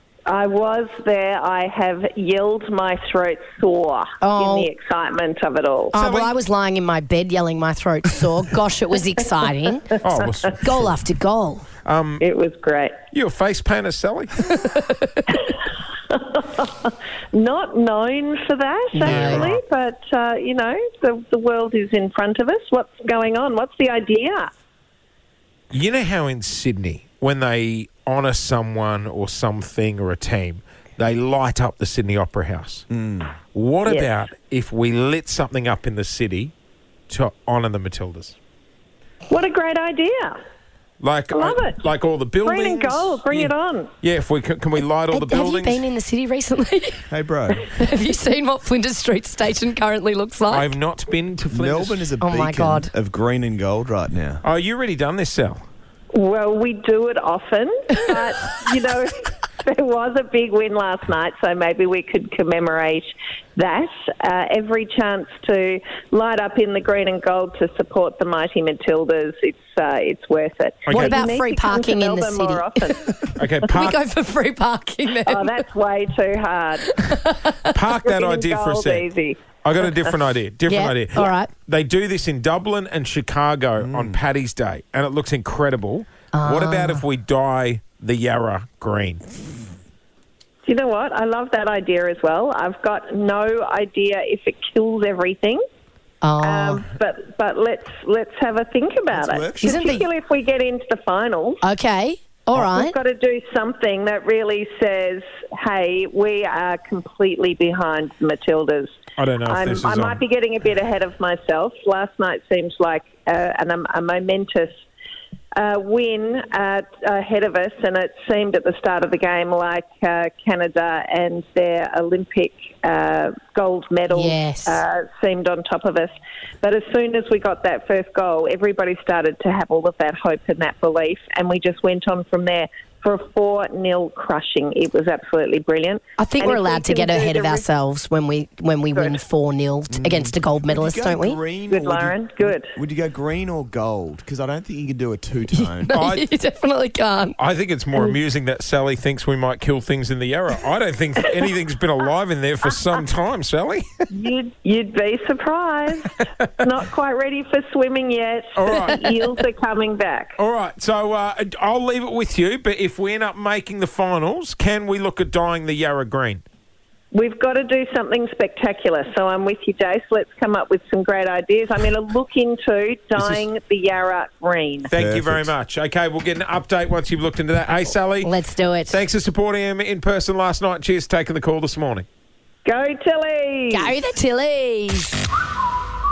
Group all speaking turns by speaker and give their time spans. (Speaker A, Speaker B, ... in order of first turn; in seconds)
Speaker A: 0.3-6.0, 12.2-12.9, 15.3-15.6, 16.1-24.5, 33.9-34.1, 39.3-40.4, 41.3-41.8, 42.4-43.9, 56.1-73.1, 75.2-77.0, 78.0-80.2, 90.6-95.6, 96.4-101.6, 102.5-114.8, 115.5-137.7, 138.9-139.2, 141.7-142.7, 154.1-160.4, 167.1-174.9, 182.7-183.9
Speaker B: 4.2-4.7, 5.9-9.9, 10.6-11.7, 14.7-15.1, 18.9-19.5, 45.1-47.1, 47.7-50.7, 52.2-52.9, 70.9-75.6, 76.9-77.8, 80.7-81.5, 86.3-87.0, 96.2-96.9, 99.6-100.0, 101.6-103.0, 124.1-124.8, 136.2-141.4, 145.5-147.4, 178.2-179.0, 183.7-185.2
Speaker C: 6.0-6.3, 10.0-11.0, 11.8-12.2, 13.1-14.5, 19.0-19.6, 25.7-32.9, 33.5-36.5, 37.1-38.4, 41.0-45.9, 50.5-52.1, 54.4-55.6, 70.9-71.2, 73.4-74.0, 77.7-79.1, 79.6-89.6, 109.2-110.2, 145.9-146.3, 147.4-154.0, 158.6-159.1, 160.4-166.4, 173.2-173.4, 174.9-178.3, 178.9-182.1
Speaker D: 32.9-33.4, 47.1-47.7, 51.5-54.4, 83.8-84.2, 99.1-99.8, 139.9-146.0, 175.0-175.5